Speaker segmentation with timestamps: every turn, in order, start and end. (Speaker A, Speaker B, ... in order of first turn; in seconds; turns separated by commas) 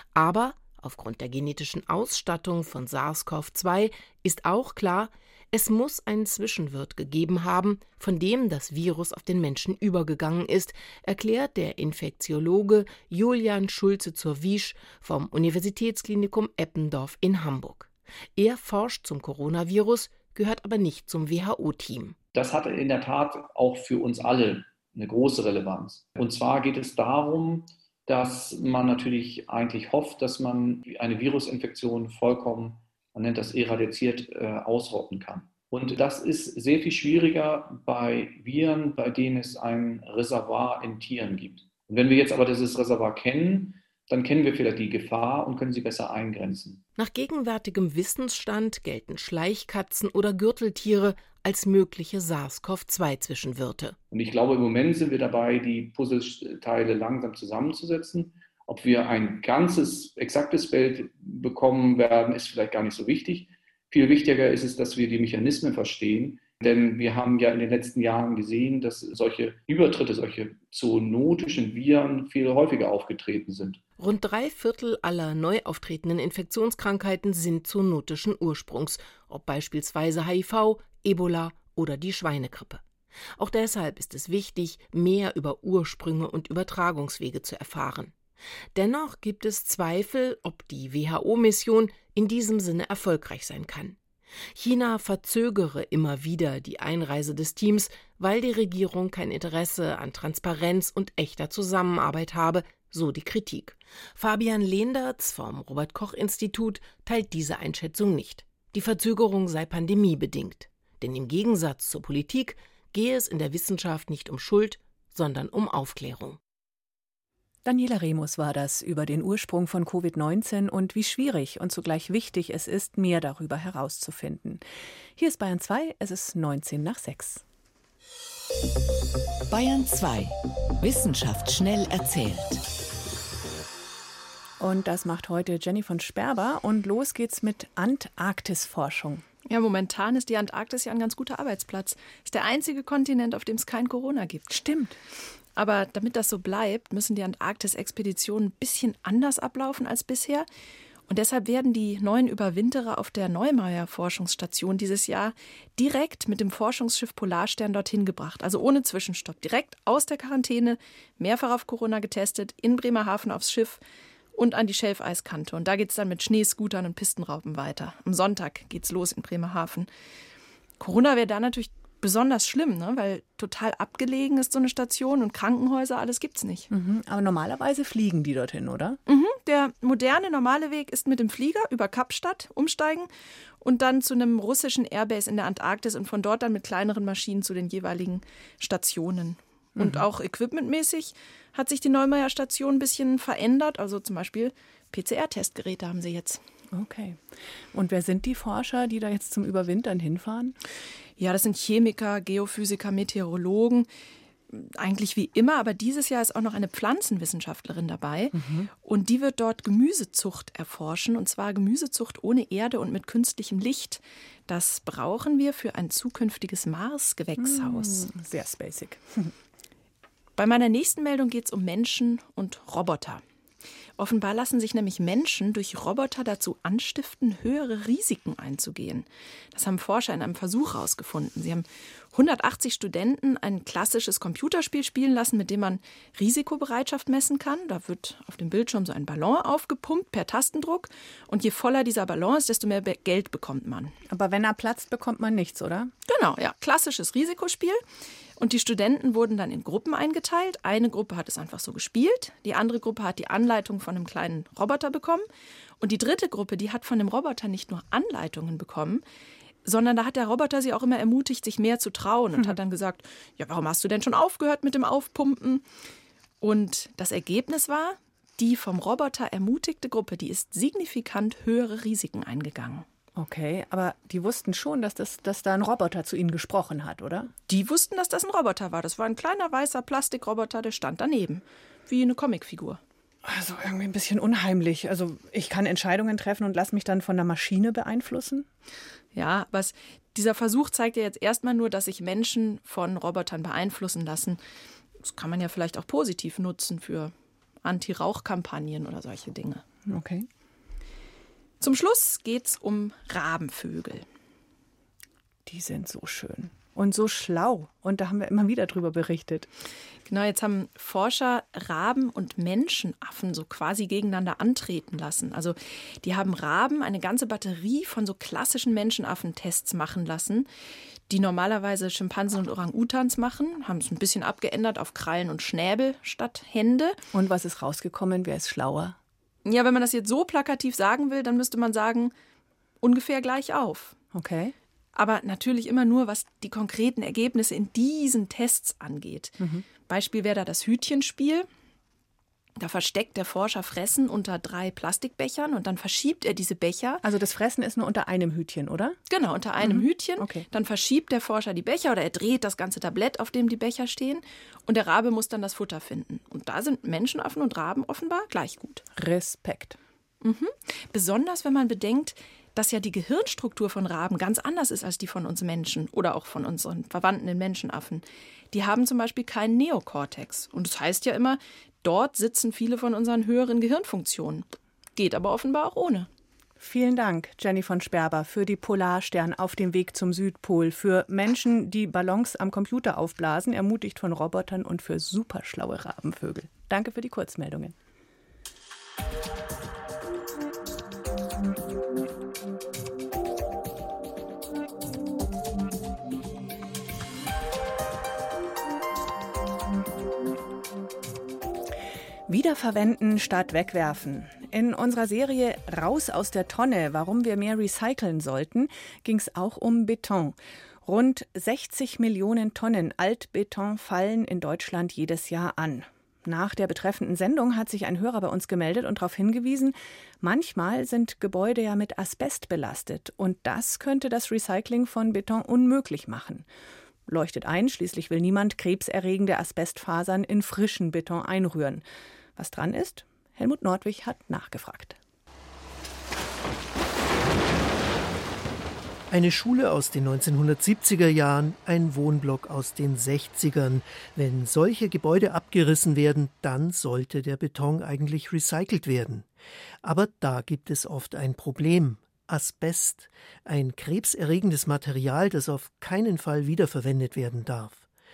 Speaker A: 0.1-22.1, Speaker B: 22.3-46.8, Speaker A: 47.0-54.0, Speaker B: 54.1-73.8, Speaker A: 74.0-82.8, Speaker A: 83.4-88.1, Speaker A: 88.8-94.0, Speaker A: 94.5-116.4, Speaker C: 117.6-124.6, Speaker C: 125.2-127.4, Speaker D: 129.5-132.6, Speaker C: 134.6-139.2, Speaker E: 139.5-144.6, Speaker C: 144.5-144.9, Speaker E: 145.6-150.5, Speaker E: 151.1-163.8, Speaker E: 164.3-169.9, Speaker E: 170.8-176.7, Speaker C: 176.7-179.0, Speaker E: 179.1-183.1, Speaker E: 183.6-196.4, Speaker C: 189.8-190.1, Speaker C: 196.7-200.5, Speaker E: 201.2-203.9, Speaker E: 204.5-218.1, Speaker C: 208.3-208.7, Speaker C: 217.4-219.3, Speaker E: 220.4-223.2, Speaker E: 224.0-243.9, Speaker C: 244.1-245.9, Speaker E: 246.1-247.8, Speaker E: 248.4-255.2, Speaker E: 255.8-259.0, Speaker E: 259.6-265.6, Speaker E: 266.4-272.8, Speaker C: 273.1-277.3, Speaker E: 277.5-282.8, Speaker C: 283.2-288.4, Speaker E: 289.1-294.4, Speaker E: 295.0-297.1, Speaker E: 297.6-299.6, Speaker C: 299.9-300.3, Speaker E: 301.6-304.0, Speaker C: 305.5-309.5, Speaker E: 310.1-320.5, Speaker E: 321.1-327.0, Speaker C: 327.1-329.0, Speaker E: 329.4-332.1, Speaker E: 332.8-333.9, Speaker C: 334.1-334.5, Speaker E: 334.9-341.4, Speaker C: 339.4-339.6, Speaker E: 342.6-347.0, Speaker C: 347.0-349.0, Speaker E: 349.1-358.8, Speaker C: 349.6-350.4, Speaker C: 358.9-359.8, Speaker E: 360.2-376.1, Speaker C: 376.6-387.7, Speaker C: 402.3-426.4, Speaker C: 427.1-431.8, Speaker C: 432.4-434.9, Speaker F: 439.1-449.3, Speaker F: 449.8-457.8